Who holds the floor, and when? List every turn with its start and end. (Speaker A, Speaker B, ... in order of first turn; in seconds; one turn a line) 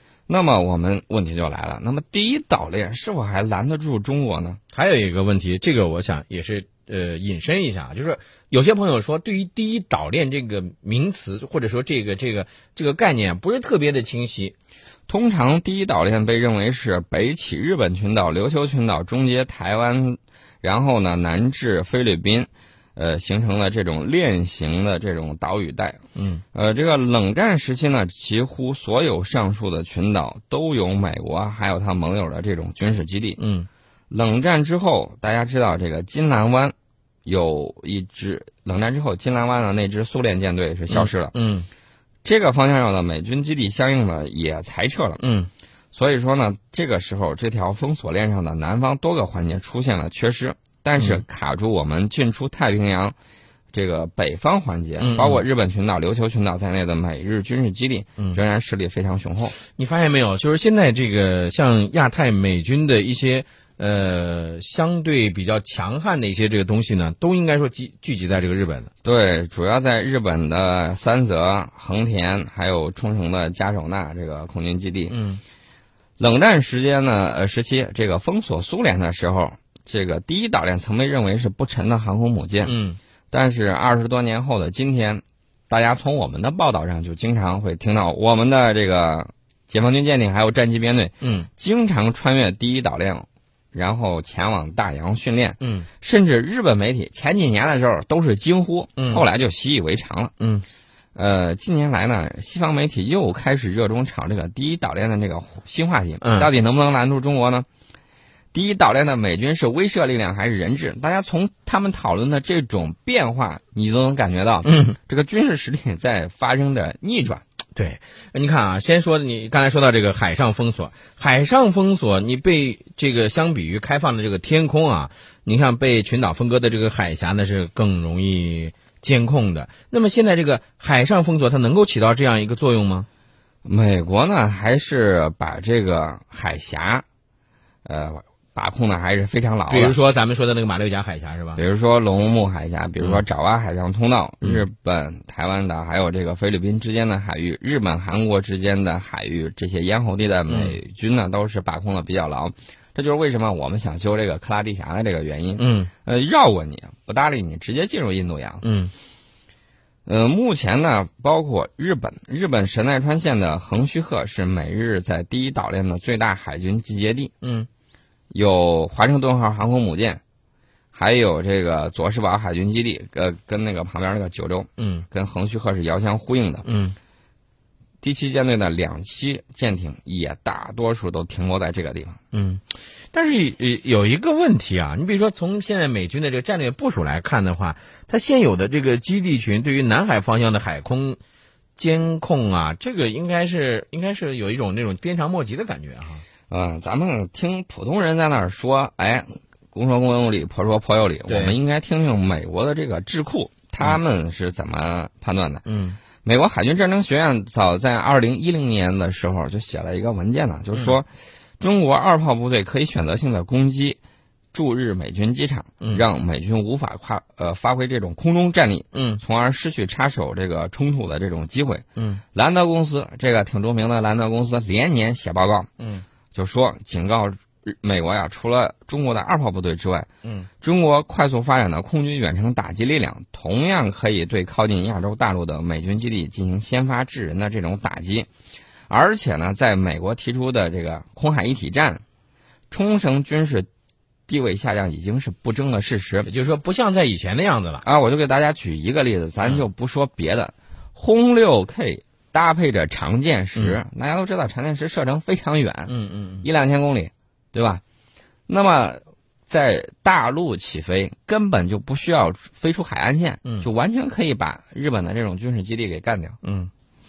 Speaker A: 0.3-4.6
Speaker B: 4.7-14.5
Speaker A: 15.1-26.0
Speaker B: 26.1-26.4
Speaker A: 26.5-33.4
Speaker B: 33.4-33.7
Speaker A: 34.1-36.7
Speaker A: 37.2-41.3
Speaker B: 40.9-41.7
Speaker A: 42.2-45.2
Speaker B: 45.2-45.5
Speaker A: 45.9-53.1
Speaker B: 51.0-51.2
Speaker A: 53.7-59.5
Speaker B: 55.0-55.4
Speaker B: 59.7-68.9
Speaker A: 69.0-75.1
Speaker B: 75.1-75.4
Speaker A: 76.2-82.8
Speaker B: 82.6-83.0
Speaker A: 83.3-100.3
Speaker B: 91.2-91.5
Speaker B: 95.6-95.9
Speaker B: 99.0-99.2
Speaker B: 100.4-100.6
Speaker A: 101.1-107.7
Speaker B: 106.2-106.5
Speaker A: 108.5-117.4
Speaker B: 114.6-114.9
Speaker B: 117.7-133.1
Speaker A: 133.6-137.0
Speaker A: 137.8-139.9
Speaker B: 139.7-141.6
Speaker A: 141.6-158.6
Speaker B: 150.5-150.8
Speaker B: 155.6-155.9
Speaker B: 158.6-158.9
Speaker A: 160.1-167.3
Speaker B: 167.4-167.7
Speaker A: 168.3-170.2
Speaker A: 170.9-176.7
Speaker B: 174.8-175.1
Speaker B: 176.6-176.9
Speaker A: 178.0-182.2
Speaker B: 182.3-191.2
Speaker B: 191.8-196.2
Speaker A: 196.5-205.6
Speaker B: 201.3-201.6
Speaker B: 205.7-206.0
Speaker A: 206.2-211.1
Speaker A: 211.6-214.0
Speaker A: 214.5-225.7
Speaker B: 218.9-219.2
Speaker B: 222.0-222.2
Speaker B: 225.8-226.0
Speaker A: 226.3-230.1
Speaker A: 230.6-238.3
Speaker A: 238.9-242.0
Speaker A: 242.7-243.7
Speaker A: 244.3-246.3
Speaker B: 246.2-247.8
Speaker A: 247.8-255.9
Speaker B: 255.9-256.4
Speaker A: 256.4-257.8
Speaker A: 258.5-266.4
Speaker B: 266.4-266.7